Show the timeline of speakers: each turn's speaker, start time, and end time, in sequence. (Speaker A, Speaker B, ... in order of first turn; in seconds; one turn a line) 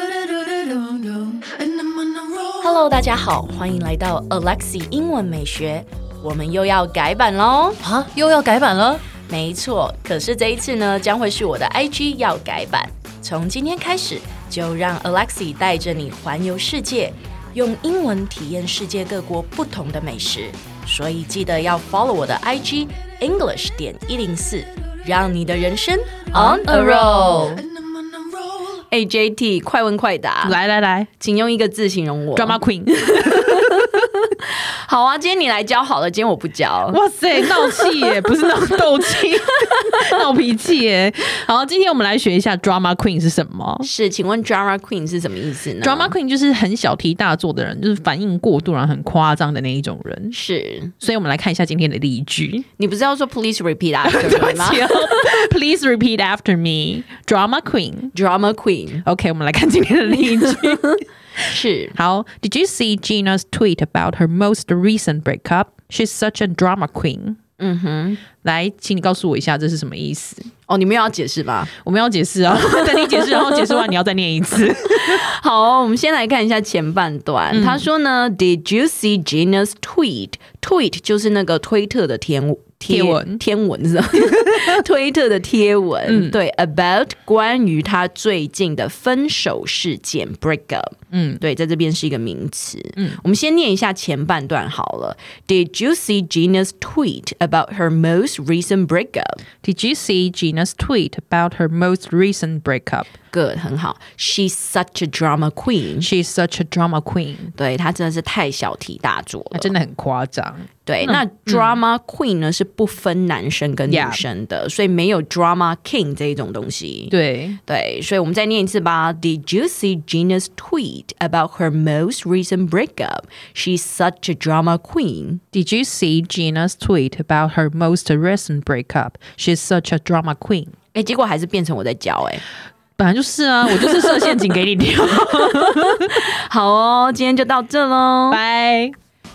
Speaker A: 2.6-7.8
Speaker B: 7.8-9.0
Speaker A: 9.3-27.6
Speaker B: 26.3-27.6
Speaker A: 28.9-30.6
Speaker B: 30.4-31.1
Speaker A: 31.2-38.2
Speaker B: 32.3-34.0
Speaker B: 36.9-43.9
Speaker A: 43.8-46.1
Speaker B: 45.8-50.4
Speaker A: 50.3-50.9
Speaker B: 51.0-52.6
Speaker A: 52.8-55.1
Speaker B: 54.0-58.1
Speaker A: 58.1-59.0
Speaker B: 59.0-67.4
Speaker A: 61.5-61.9
Speaker A: 67.6-68.2
Speaker B: 68.4-70.5
Speaker A: 70.7-71.7
Speaker B: 71.8-75.2
Speaker A: 72.5-73.9
Speaker A: 74.8-99.4
Speaker B: 77.5-77.9
Speaker B: 82.9-83.4
Speaker B: 84.2-84.8
Speaker B: 86.1-86.3
Speaker B: 91.1-91.4
Speaker B: 99.6-103.1
Speaker A: 103.3-106.1
Speaker B: 106.0-107.5
Speaker A: 107.6-109.7
Speaker B: 109.5-111.8
Speaker A: 110.8-117.1
Speaker B: 113.9-114.2
Speaker B: 117.1-117.6
Speaker A: 117.7-125.4
Speaker B: 125.5-130.7
Speaker A: 130.9-132.4
Speaker B: 133.0-136.3
Speaker A: 135.6-138.4
Speaker B: 138.3-138.9